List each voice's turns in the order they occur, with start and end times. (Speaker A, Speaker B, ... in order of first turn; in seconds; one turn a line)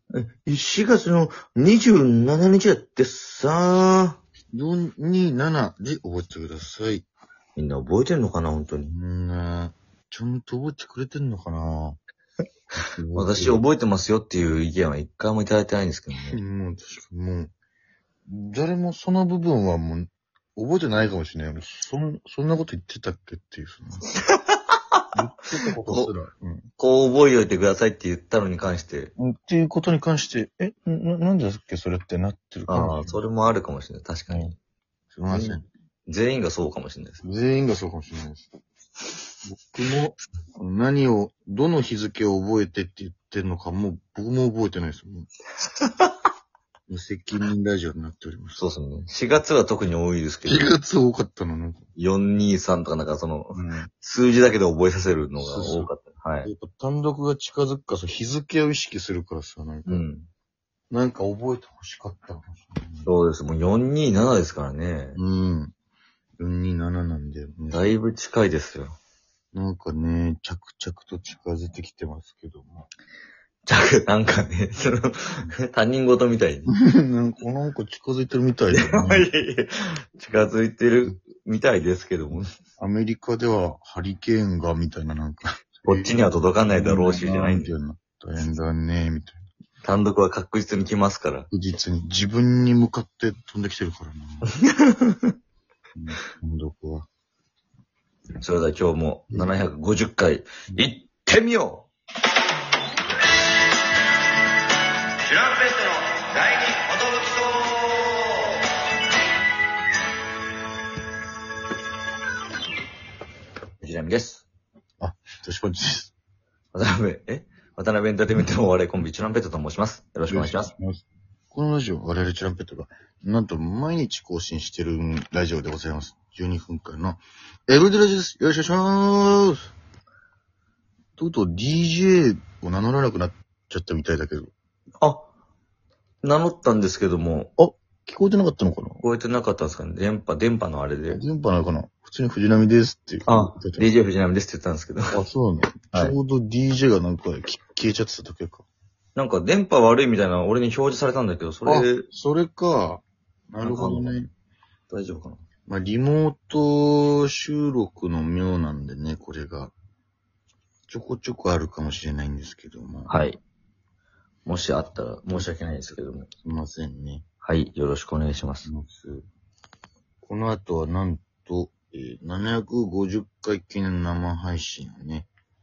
Speaker A: 0.1-4.2
Speaker B: 4.5-7.1
Speaker A: 7.6-8.9
Speaker B: 8.9-12.0
Speaker B: 12.9-13.6
Speaker A: 13.1-16.4
Speaker B: 16.2-17.5
Speaker B: 18.3-24.1
Speaker A: 24.3-25.0
Speaker B: 25.1-26.6
Speaker A: 26.8-29.1
Speaker B: 29.2-33.2
Speaker A: 32.7-34.5
Speaker B: 35.1-35.6
Speaker A: 35.3-37.2
Speaker B: 37.2-38.5
Speaker B: 39.4-45.3
Speaker A: 45.8-46.1
Speaker B: 46.9-48.6
Speaker A: 48.6-50.7
Speaker B: 50.5-51.9
Speaker A: 52.0-56.5
Speaker B: 53.5-53.9
Speaker B: 55.4-55.9
Speaker B: 56.4-60.0
Speaker A: 59.9-60.3
Speaker B: 60.9-63.1
Speaker A: 63.0-65.2
Speaker B: 65.2-65.7
Speaker B: 66.4-68.0
Speaker A: 67.7-69.0
Speaker B: 69.5-72.9
Speaker A: 73.7-76.7
Speaker B: 76.7-79.3
Speaker A: 78.7-82.5
Speaker B: 82.8-89.4
Speaker A: 85.8-87.7
Speaker A: 89.8-91.5
Speaker B: 91.5-94.5
Speaker A: 94.6-95.3
Speaker B: 96.0-97.1
Speaker A: 98.4-101.9
Speaker A: 105.2-108.7
Speaker A: 113.8-114.5
Speaker B: 115.0-116.1
Speaker A: 116.7-120.7
Speaker B: 120.3-129.7
Speaker B: 131.2-134.5
Speaker A: 135.0-135.3
Speaker A: 136.2-137.5
Speaker B: 137.6-139.0
Speaker A: 139.0-141.2
Speaker B: 141.1-143.9
Speaker A: 143.3-145.2
Speaker B: 145.1-148.7
Speaker A: 149.2-152.1
Speaker B: 151.7-154.3
Speaker A: 153.6-154.2
Speaker A: 154.9-155.4
Speaker B: 155.7-159.7
Speaker B: 160.9-163.1
Speaker A: 163.1-163.4
Speaker A: 164.5-166.3
Speaker B: 166.4-167.2
Speaker A: 167.4-168.7
Speaker B: 168.7-169.2
Speaker B: 170.2-175.3